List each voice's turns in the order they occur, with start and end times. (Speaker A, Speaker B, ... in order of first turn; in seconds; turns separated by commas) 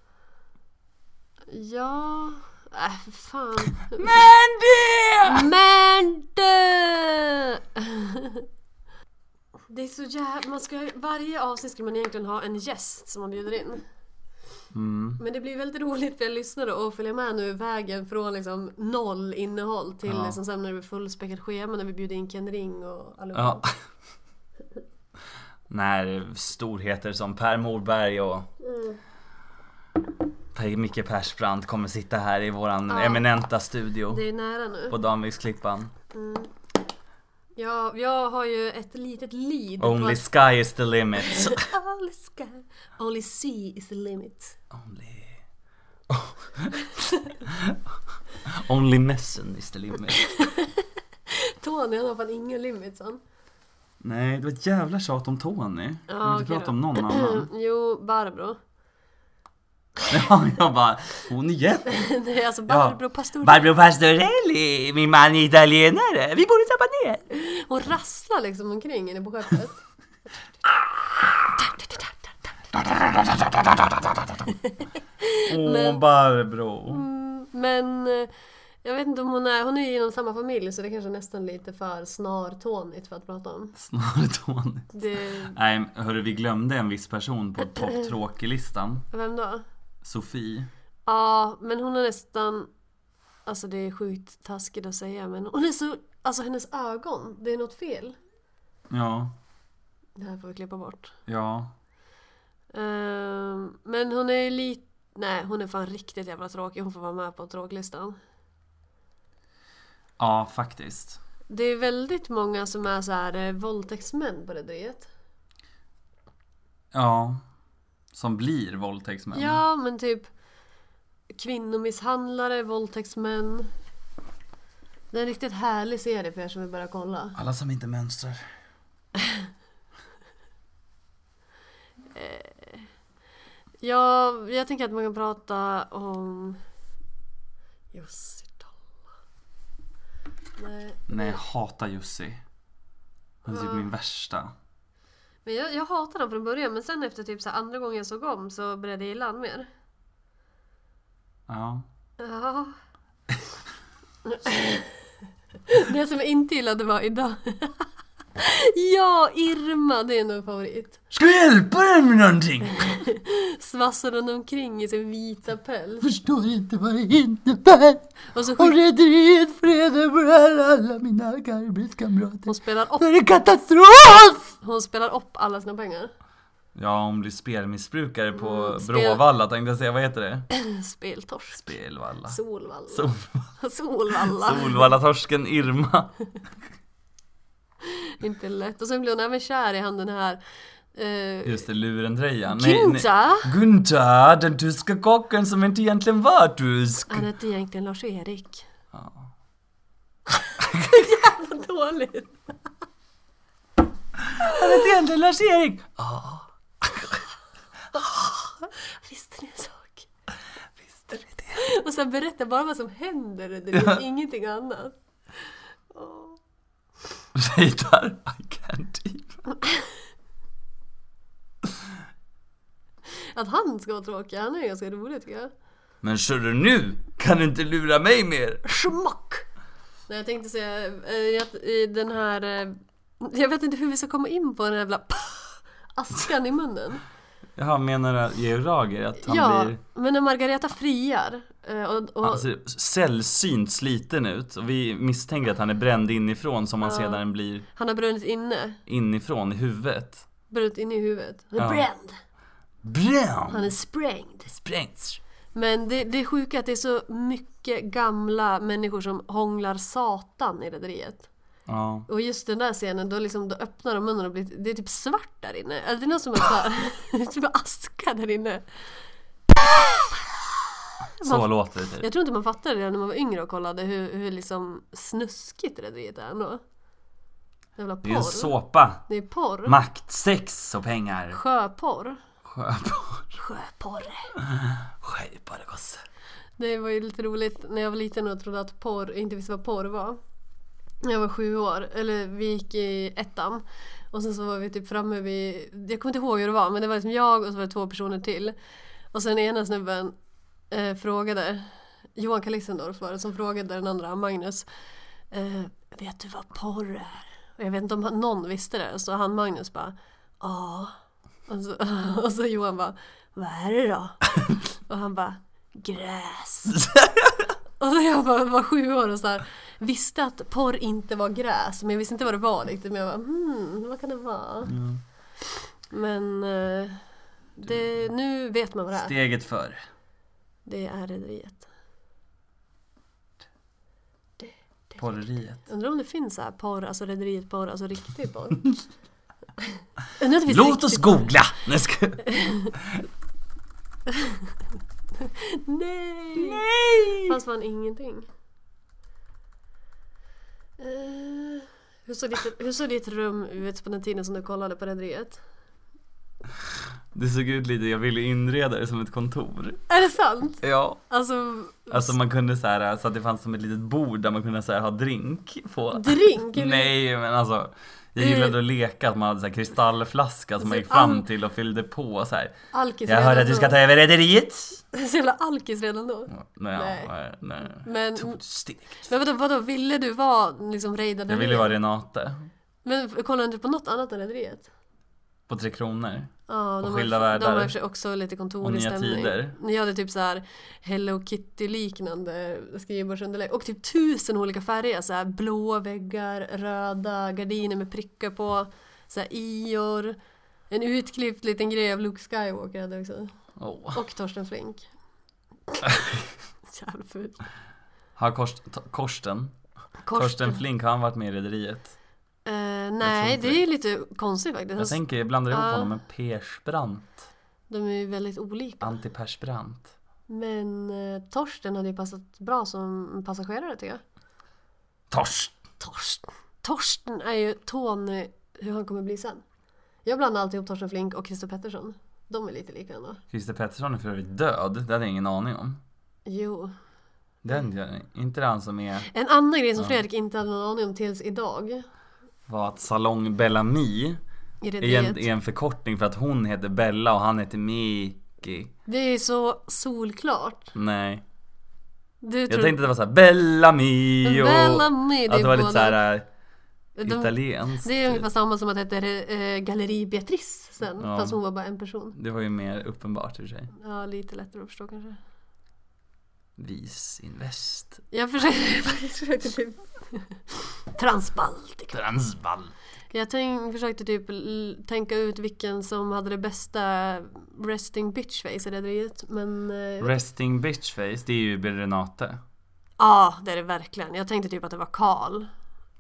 Speaker A: 1.5-4.2, Speaker B: 4.0-5.5, Speaker A: 5.3-8.4, Speaker A: 9.7-13.8, Speaker B: 14.7-15.2, Speaker A: 15.2-23.6, Speaker B: 20.1-20.4, Speaker B: 23.3-23.8, Speaker B: 25.7-28.5, Speaker A: 28.6-29.0, Speaker B: 30.5-34.2, Speaker A: 32.9-33.3, Speaker A: 34.1-35.0, Speaker B: 34.9-35.9, Speaker A: 36.1-36.5, Speaker A: 37.6-40.3, Speaker B: 39.8-41.7, Speaker A: 41.3-44.6, Speaker B: 44.7-45.4, Speaker B: 46.1-47.8, Speaker B: 48.5-50.4, Speaker A: 50.2-53.2, Speaker B: 54.0-57.5, Speaker A: 56.1-58.6, Speaker B: 60.1-62.1, Speaker A: 61.9-63.7, Speaker B: 62.7-67.2, Speaker A: 67.3-69.8, Speaker A: 71.5-72.2, Speaker B: 73.2-74.0, Speaker A: 74.5-76.0, Speaker B: 75.5-77.1, Speaker A: 76.9-78.3, Speaker A: 78.8-83.7, Speaker B: 83.8-89.1, Speaker A: 84.9-85.6, Speaker A: 89.1-89.6, Speaker B: 90.0-90.7, Speaker A: 91.1-92.7, Speaker A: 93.5-98.2, Speaker B: 98.9-99.3, Speaker A: 100.2-101.1, Speaker B: 101.3-101.7, Speaker A: 102.7-108.2, Speaker B: 110.2-111.2, Speaker A: 111.5-115.1, Speaker B: 116.9-117.4, Speaker B: 118.1-119.6, Speaker A: 119.3-120.3, Speaker A: 121.4-123.7, Speaker A: 125.1-127.4, Speaker B: 127.4-128.4, Speaker A: 132.1-132.9, Speaker A: 133.8-136.6, Speaker A: 137.9-138.8, Speaker A: 140.6-141.4, Speaker B: 141.1-142.4, Speaker B: 143.4-144.5, Speaker A: 143.5-143.9, Speaker A: 145.4-149.7, Speaker B: 151.5-151.9, Speaker A: 152.2-152.8, Speaker A: 154.2-155.1, Speaker A: 155.7-157.9, Speaker A: 158.4-161.0, Speaker B: 161.1-163.0, Speaker A: 162.8-166.1, Speaker B: 166.0-174.5, Speaker A: 168.3-168.8, Speaker A: 172.5-173.1, Speaker A: 174.6-176.1, Speaker B: 176.8-180.5, Speaker A: 178.3-179.2, Speaker A: 180.5-181.7, Speaker B: 181.5-182.4, Speaker A: 182.3-183.1, Speaker B: 182.9-183.5, Speaker A: 183.6-184.8, Speaker B: 184.2-186.2, Speaker A: 188.1-190.4, Speaker A: 190.9-191.7, Speaker B: 191.4-197.3, Speaker A: 192.5-193.5, Speaker A: 197.1-198.7, Speaker B: 198.9-199.3, Speaker A: 200.7-202.4, Speaker B: 204.3-207.2, Speaker A: 207.9-210.1, Speaker B: 210.9-211.6, Speaker A: 211.6-215.0, Speaker A: 215.9-216.4, Speaker B: 217.3-219.4, Speaker A: 223.3-225.5, Speaker B: 226.0-228.6, Speaker A: 228.7-229.4, Speaker A: 230.1-237.0, Speaker B: 237.6-239.8, Speaker A: 239.2-242.5, Speaker B: 242.2-247.7, Speaker A: 246.8-248.8, Speaker B: 248.9-250.2, Speaker A: 250.5-252.2, Speaker B: 251.6-251.9, Speaker B: 252.8-253.7, Speaker A: 253.5-254.5, Speaker B: 254.5-255.2, Speaker A: 255.5-261.3, Speaker B: 261.7-262.1, Speaker A: 262.1-268.6, Speaker A: 271.2-276.6, Speaker B: 271.2-272.1, Speaker A: 277.8-279.8, Speaker B: 278.0-279.0, Speaker B: 279.7-281.4, Speaker A: 281.3-282.2, Speaker B: 282.5-283.3, Speaker A: 283.3-284.3, Speaker B: 284.4-286.0, Speaker A: 286.6-290.2, Speaker A: 291.0-298.6, Speaker A: 299.1-300.1, Speaker A: 300.7-304.7, Speaker A: 305.3-310.9, Speaker A: 311.5-314.3, Speaker A: 314.9-316.8, Speaker B: 316.7-317.5, Speaker A: 317.8-324.7, Speaker B: 324.6-325.0, Speaker A: 325.9-327.0, Speaker A: 327.6-329.1, Speaker B: 328.9-329.8, Speaker A: 330.6-331.7, Speaker A: 334.4-338.7, Speaker B: 335.0-335.6, Speaker A: 340.2-341.3, Speaker B: 340.5-342.3, Speaker A: 342.3-342.7, Speaker A: 345.2-346.7, Speaker B: 346.4-347.4, Speaker A: 347.2-348.3, Speaker A: 350.8-355.4, Speaker B: 357.1-359.8, Speaker A: 359.9-362.1, Speaker B: 360.6-361.0, Speaker B: 361.9-372.5, Speaker A: 365.9-366.9, Speaker A: 368.2-368.6, Speaker A: 370.6-371.3, Speaker A: 372.7-373.8, Speaker B: 373.1-374.8, Speaker A: 374.9-377.1, Speaker B: 376.3-379.0, Speaker A: 377.7-378.4, Speaker A: 379.0-381.7, Speaker B: 381.3-382.5, Speaker A: 382.9-384.7, Speaker B: 385.5-386.3, Speaker A: 386.5-400.2, Speaker B: 386.8-387.7, Speaker B: 388.6-389.6, Speaker A: 400.7-403.3, Speaker B: 403.6-404.0, Speaker A: 403.9-404.9, Speaker A: 406.7-407.4, Speaker B: 408.2-409.6, Speaker A: 410.0-410.6, Speaker B: 410.1-411.9, Speaker A: 412.5-415.9, Speaker B: 413.0-413.6, Speaker B: 414.8-417.2, Speaker A: 417.7-419.0, Speaker B: 418.8-419.9, Speaker A: 420.3-424.0, Speaker B: 425.1-425.6, Speaker A: 425.8-429.4, Speaker A: 430.1-433.2, Speaker B: 433.3-435.8, Speaker A: 436.3-436.7, Speaker B: 437.4-439.1, Speaker A: 439.1-441.8, Speaker B: 442.5-444.2, Speaker A: 444.6-445.3, Speaker B: 444.8-448.7, Speaker A: 448.9-450.7, Speaker B: 450.8-451.2, Speaker A: 452.2-452.8, Speaker B: 452.5-456.3, Speaker A: 454.2-456.0, Speaker A: 457.0-462.2, Speaker B: 457.0-458.3, Speaker B: 461.0-461.4, Speaker B: 462.1-463.7, Speaker A: 463.8-465.2, Speaker B: 466.6-468.0, Speaker A: 468.1-471.9, Speaker B: 471.9-472.7, Speaker A: 473.1-480.2, Speaker B: 480.0-482.4, Speaker A: 483.0-485.5